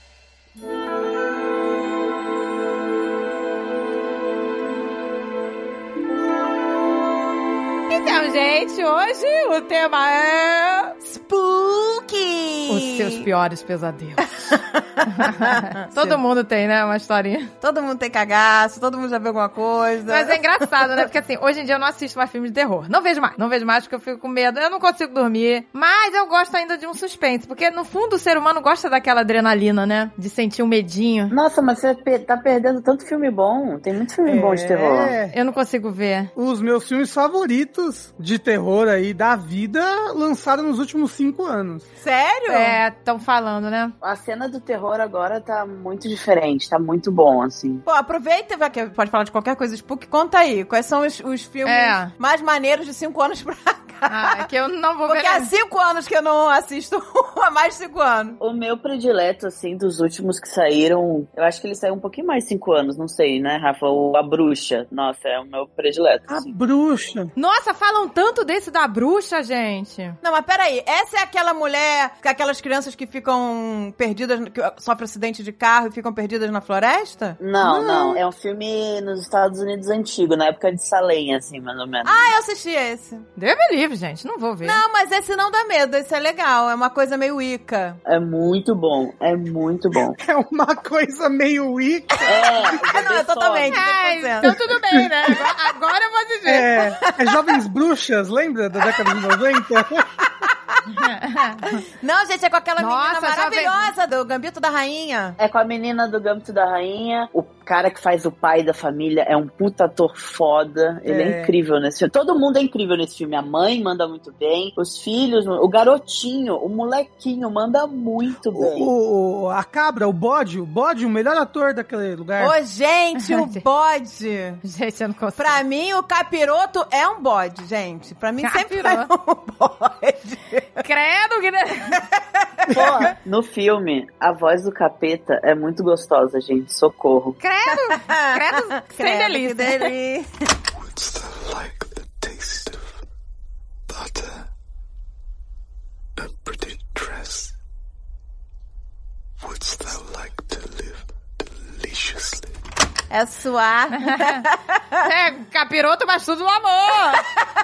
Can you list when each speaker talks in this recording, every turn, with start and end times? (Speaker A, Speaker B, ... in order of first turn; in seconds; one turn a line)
Speaker A: 7.9-10.9
Speaker B: 11.0-13.3
Speaker A: 12.7-17.5
Speaker B: 14.5-16.2
Speaker B: 17.6-20.7
Speaker A: 20.1-31.3
Speaker C: 31.3-35.1
Speaker D: 34.2-35.4
Speaker A: 35.3-36.3
Speaker D: 36.4-41.9
Speaker B: 42.0-42.8
Speaker A: 42.5-43.9
Speaker C: 44.0-47.8
Speaker B: 47.9-54.4
Speaker A: 51.7-52.1
Speaker A: 54.1-55.5
Speaker B: 55.1-58.4
Speaker C: 58.4-66.5
Speaker D: 66.3-67.3
Speaker A: 67.4-70.2
Speaker B: 70.2-77.4
Speaker C: 77.4-82.3
Speaker D: 77.6-78.2
Speaker B: 82.0-83.3
Speaker A: 83.4-84.8
Speaker B: 84.6-88.0
Speaker C: 88.1-90.2
Speaker D: 89.9-92.8
Speaker C: 92.2-93.8
Speaker B: 92.6-94.5
Speaker A: 93.8-96.8
Speaker D: 94.4-95.4
Speaker D: 96.5-100.3
Speaker B: 97.1-97.5
Speaker B: 98.8-99.2
Speaker B: 100.3-100.8
Speaker A: 100.9-101.8
Speaker B: 102.0-105.4
Speaker A: 102.8-103.9
Speaker C: 105.4-118.9
Speaker D: 111.1-111.5
Speaker D: 118.5-122.6
Speaker B: 122.4-124.6
Speaker A: 123.2-123.6
Speaker A: 124.6-125.6
Speaker B: 125.4-130.8
Speaker A: 128.4-129.1
Speaker A: 130.8-132.0
Speaker B: 132.4-133.0
Speaker D: 132.7-133.1
Speaker C: 132.7-137.4
Speaker A: 137.4-139.9
Speaker B: 137.9-140.3
Speaker E: 140.8-143.0
Speaker E: 143.9-144.5
Speaker E: 146.2-147.5
Speaker E: 149.4-152.5
Speaker B: 153.1-155.0
Speaker A: 154.0-154.4
Speaker A: 155.0-157.3